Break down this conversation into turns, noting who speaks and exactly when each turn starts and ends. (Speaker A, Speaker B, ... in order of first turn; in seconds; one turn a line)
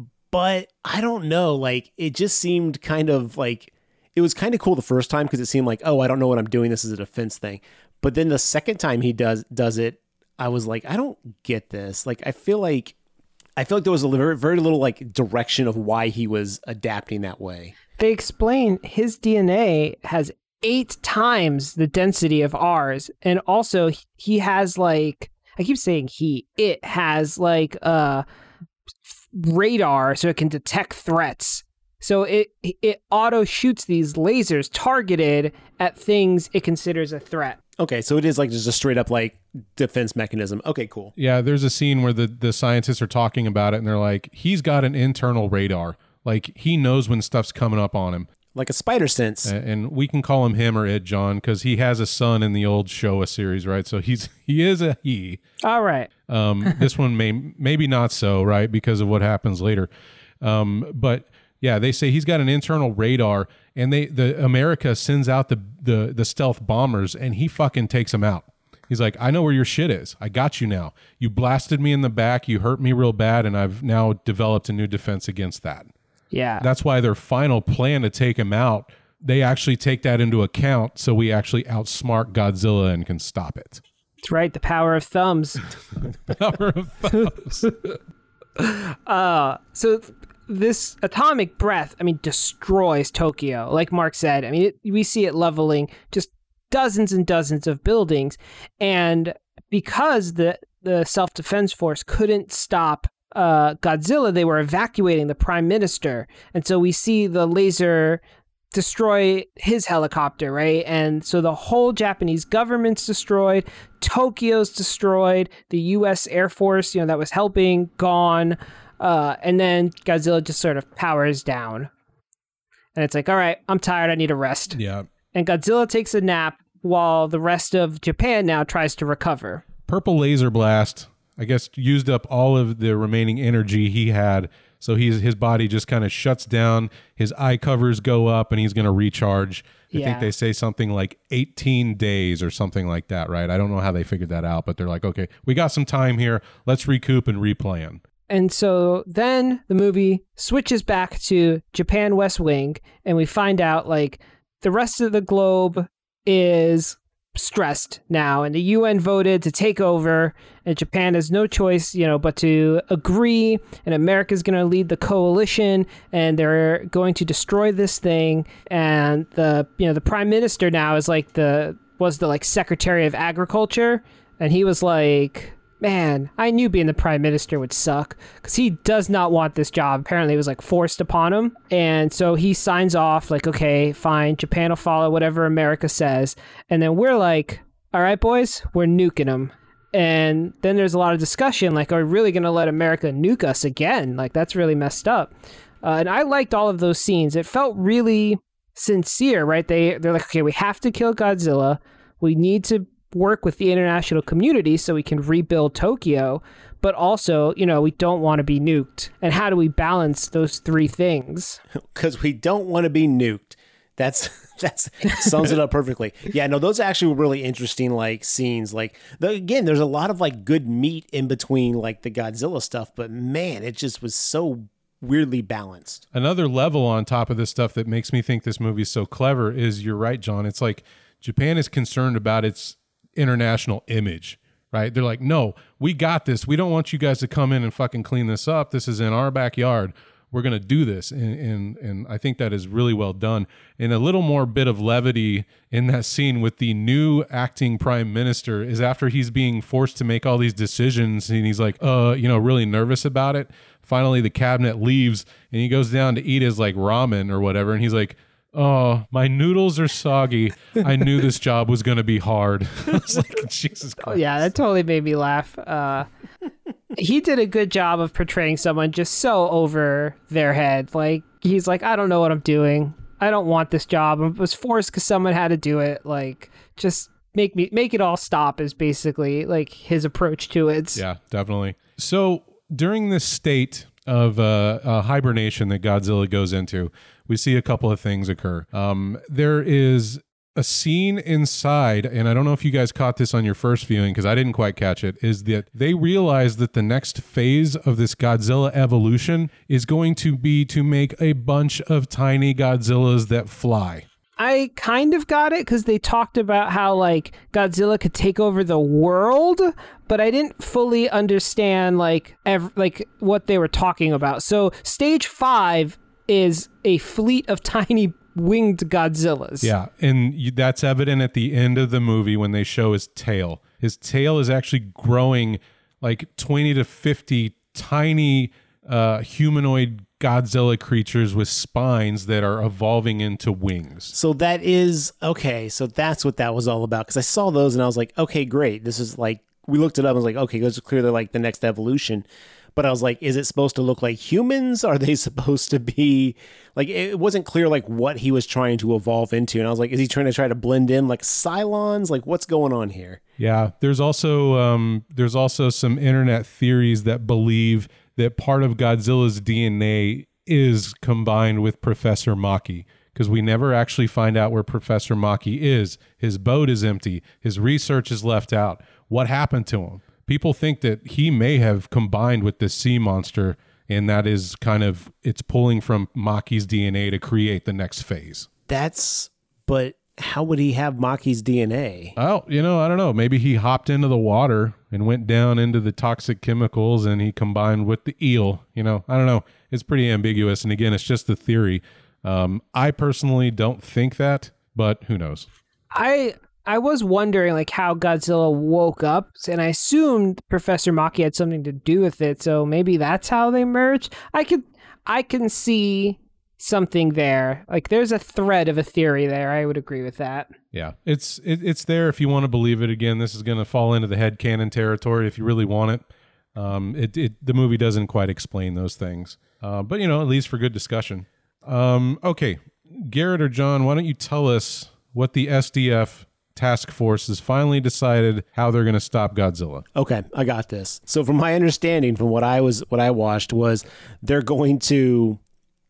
Speaker A: 0.3-12.9
Speaker A: 13.6-17.7
Speaker B: 18.0-28.2
Speaker B: 29.1-37.6
Speaker A: 37.8-41.1
Speaker C: 41.2-48.3
Speaker A: 48.5-49.5
Speaker C: 49.4-55.4
Speaker B: 55.6-56.1
Speaker C: 56.3-59.9
Speaker C: 60.4-75.9
Speaker B: 76.3-76.6
Speaker C: 76.6-83.8
Speaker B: 84.2-85.6
Speaker C: 86.1-87.7
Speaker B: 88.6-108.2
Speaker B: 108.7-121.9
Speaker B: 122.9-124.8
Speaker C: 124.7-125.1
Speaker B: 125.3-129.6
Speaker C: 129.9-148.0
Speaker B: 139.9-140.3
Speaker B: 148.3-195.3
Speaker B: 195.8-211.6
Speaker A: 211.9-226.0
Speaker C: 226.1-264.5
Speaker B: 264.1-266.1
Speaker B: 266.9-281.0
Speaker C: 280.9-304.1
Speaker B: 304.4-319.7
Speaker C: 319.6-334.1
Speaker A: 334.1-342.2
Speaker A: 342.8-353.2
Speaker C: 353.4-378.5
Speaker A: 378.7-382.1
Speaker C: 382.2-395.5
Speaker B: 395.9-410.5
Speaker C: 410.7-416.0
Speaker C: 416.5-429.8
Speaker A: 429.9-435.4